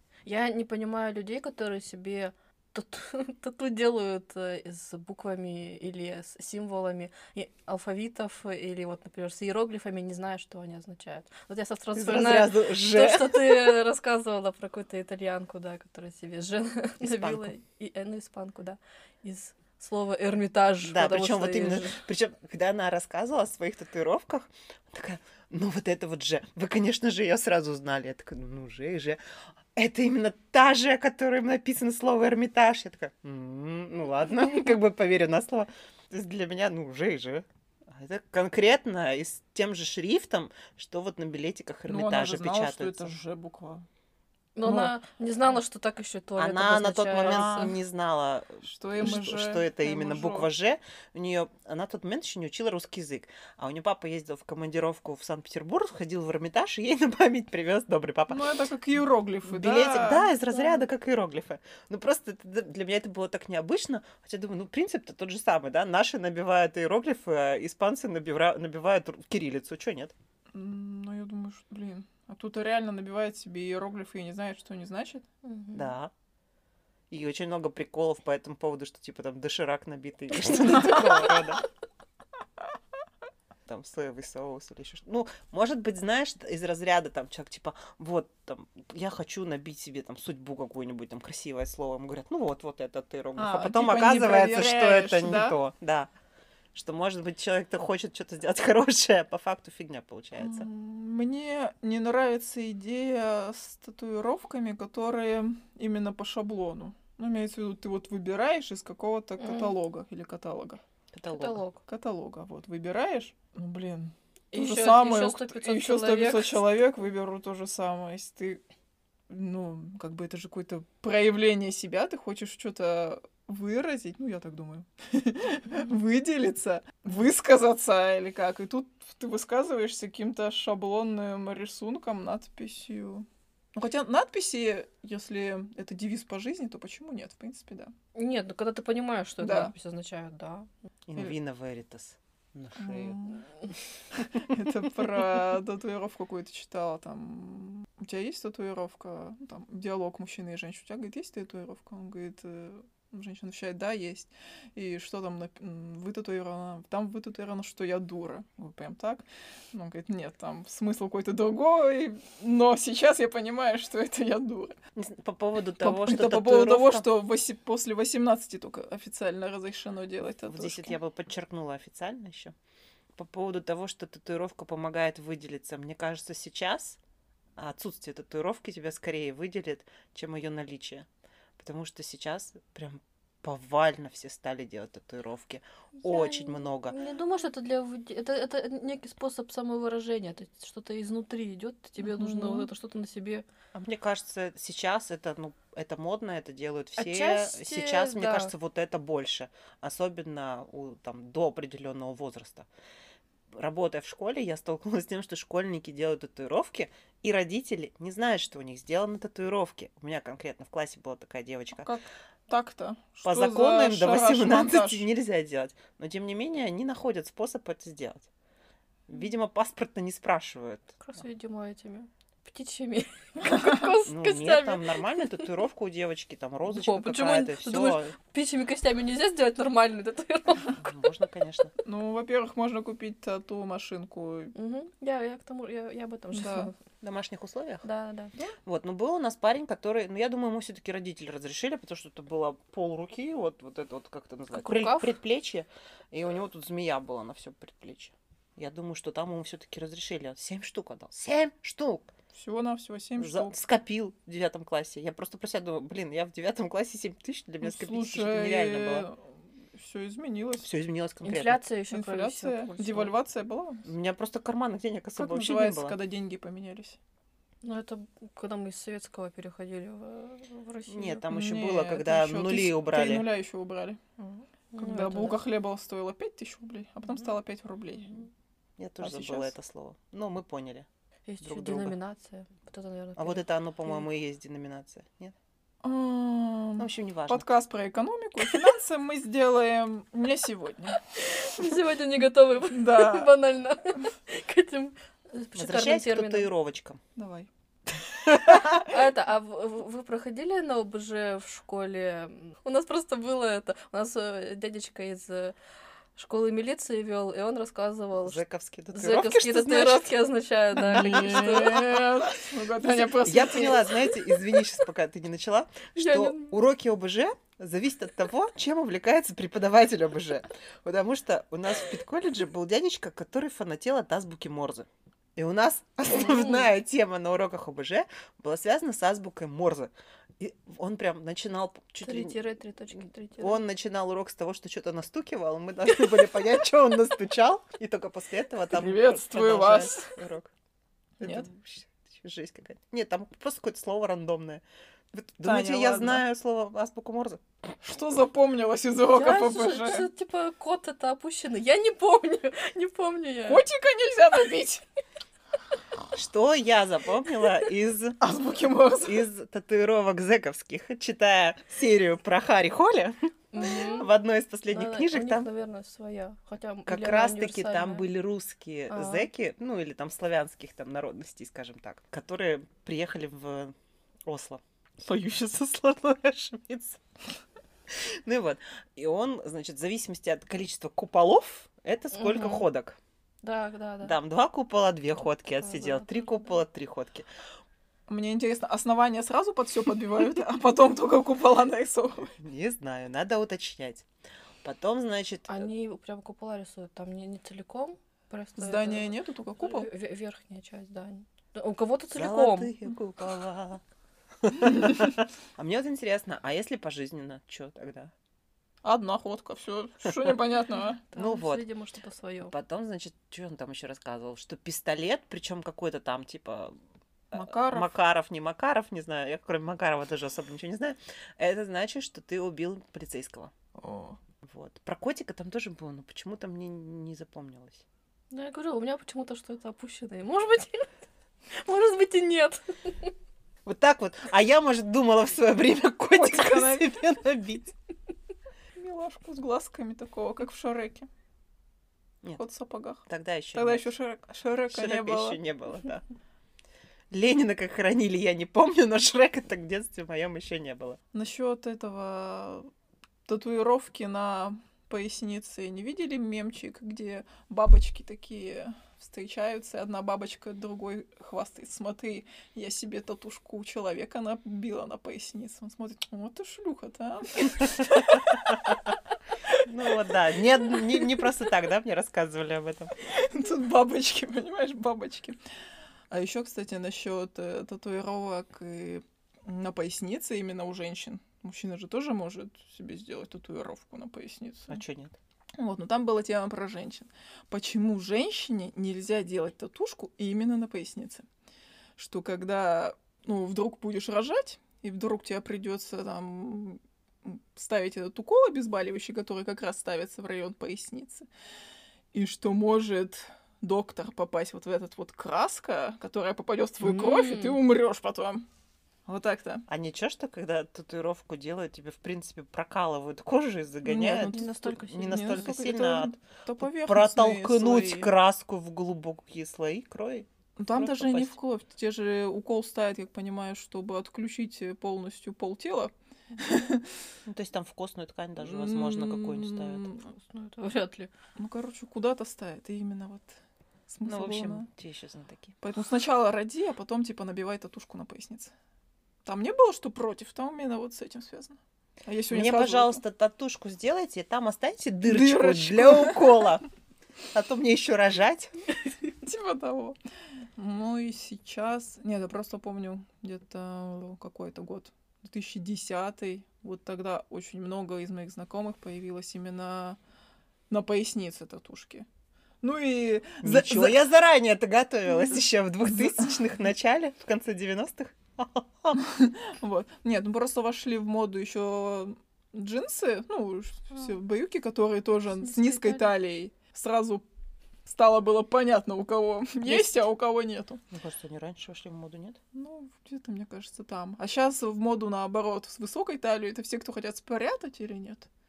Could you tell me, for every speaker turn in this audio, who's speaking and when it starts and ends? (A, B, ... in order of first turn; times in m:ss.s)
0:00.3-0:22.0 A
0:12.0-0:13.8 B
0:17.0-0:17.5 B
0:20.8-0:29.2 B
0:29.8-0:43.1 B
0:41.9-0:43.9 C
0:44.6-0:47.7 A
0:44.6-0:44.9 C
0:46.4-0:58.5 B
0:47.2-0:47.7 C
0:48.6-0:50.5 C
0:58.3-1:00.8 C
0:59.5-1:10.2 B
1:10.5-1:15.3 C
1:15.4-1:15.9 A
1:15.7-1:16.1 B
1:17.1-1:21.6 B
1:20.8-1:21.3 A
1:23.7-1:36.1 B
1:33.4-1:35.6 C
1:36.7-1:40.7 B
1:40.4-1:50.8 C
1:49.4-1:49.7 A
1:51.1-1:51.6 B
1:51.3-1:51.8 A
1:51.9-1:58.6 C
1:54.5-1:56.8 A
1:59.3-2:17.9 C
2:18.2-2:20.7 A
2:19.4-2:19.7 C
2:21.1-2:23.2 B
2:22.8-2:23.5 C
2:24.2-2:44.8 C
2:45.0-2:47.1 B
2:45.8-2:51.0 C
2:50.5-2:52.6 B
2:53.2-2:57.0 B
2:57.6-3:01.1 B
3:01.6-3:07.0 B
3:06.0-3:13.4 A
3:12.0-3:12.6 C
3:13.7-3:22.7 B
3:17.0-3:18.5 A
3:23.5-3:31.9 B
3:31.8-3:35.1 C
3:33.2-3:38.3 B
3:39.1-3:41.0 B
3:41.0-3:45.5 A
3:44.0-3:48.1 B
3:46.7-3:50.8 A
3:50.8-3:51.7 B
3:51.8-3:54.5 C
3:54.6-3:56.8 A
3:56.3-3:56.7 C
3:57.0-3:57.8 B
3:57.8-3:58.3 A
3:58.6-4:12.1 B
4:04.5-4:05.1 A
4:12.3-4:13.6 C
4:13.2-4:19.1 B
4:17.6-4:19.2 C
4:19.8-4:20.7 C
4:20.6-4:21.6 B
4:21.2-4:23.1 A
4:21.9-4:23.8 C
4:23.8-4:26.0 B
4:25.2-4:27.0 C
4:27.6-4:31.2 A
4:30.9-4:33.3 B
4:31.3-4:34.0 C
4:34.2-4:35.4 A
4:34.8-4:38.2 C
4:38.8-4:40.9 B
4:39.0-4:39.5 C
4:41.3-4:43.4 A
4:41.4-4:42.0 B
4:43.2-4:45.4 B
4:45.8-4:51.7 C
4:46.8-4:47.5 B
4:51.4-4:56.5 A
4:52.7-4:53.3 C
4:55.6-4:57.0 B
4:57.2-4:57.5 C
4:58.3-4:58.8 B
4:58.7-5:05.6 A
5:06.2-5:08.4 A
5:08.2-5:10.1 B
5:08.9-5:12.2 A
5:10.8-5:13.8 C
5:10.8-5:11.9 B
5:13.2-5:32.4 B
5:16.0-5:16.5 A
5:26.1-5:26.7 A
5:32.0-5:33.6 A
5:33.0-5:40.5 B
5:38.7-5:40.1 C
5:41.2-5:41.5 C
5:41.2-5:47.4 B
5:45.4-5:46.2 C
5:47.8-5:50.1 C
5:49.1-5:53.6 A
5:53.5-5:54.8 C
5:56.1-5:58.2 B
5:58.2-5:59.3 C
5:59.0-6:05.5 B
6:03.5-6:04.1 A
6:04.7-6:08.1 A
6:06.9-6:13.7 B
6:08.9-6:09.3 A
6:14.3-6:17.0 B
6:17.9-6:23.0 B
6:22.2-6:22.7 A
6:23.4-6:24.2 A
6:24.0-6:27.3 B
6:25.6-6:26.6 A
6:28.1-6:32.3 C
6:32.4-6:34.1 B
6:34.6-6:35.7 B
6:35.5-6:42.7 A
6:38.6-6:39.9 C
6:42.2-6:43.8 B
6:44.4-6:48.1 B
6:48.8-6:51.0 C
6:51.1-6:52.5 A
6:51.2-6:51.6 B
6:52.5-6:56.8 B
6:57.3-6:58.0 C
6:57.3-7:03.5 B
7:03.8-7:04.2 C
7:04.4-7:07.8 B
7:08.3-7:10.9 A
7:11.5-7:13.1 A
7:13.6-7:17.7 B
7:16.1-7:16.9 C
7:18.8-7:21.1 C
7:22.4-7:25.4 C
7:23.1-7:23.9 B
7:24.7-7:26.0 B
7:27.1-7:31.0 B
7:31.1-7:32.7 C
7:33.3-7:48.5 C
7:48.1-7:48.8 B
7:49.6-7:52.9 B
7:53.1-7:55.4 C
7:56.1-8:04.8 C
8:04.7-8:05.2 B
8:05.6-8:11.3 C
8:12.0-8:21.3 C
8:22.1-8:28.4 C
8:26.8-8:27.6 A
8:29.1-8:29.6 C
8:29.7-8:41.4 B
8:33.8-8:38.1 C
8:34.0-8:35.3 A
8:40.6-8:46.9 C
8:47.2-8:50.0 B
8:48.4-8:50.0 C
8:50.1-8:51.1 A
8:51.4-8:54.7 C
8:54.0-8:55.6 B
8:55.6-8:58.5 C
8:59.2-9:03.0 C
9:02.3-9:06.6 B
9:05.0-9:06.5 C
9:07.3-9:08.5 B
9:09.2-9:10.0 C
9:10.6-9:20.0 C
9:20.7-9:22.1 C
9:22.6-9:24.1 C
9:23.4-9:29.0 B
9:29.0-9:37.3 C
9:35.4-9:36.1 A
9:37.8-9:40.8 C
9:39.7-9:40.0 A
9:40.9-9:42.4 B
9:42.5-9:48.3 C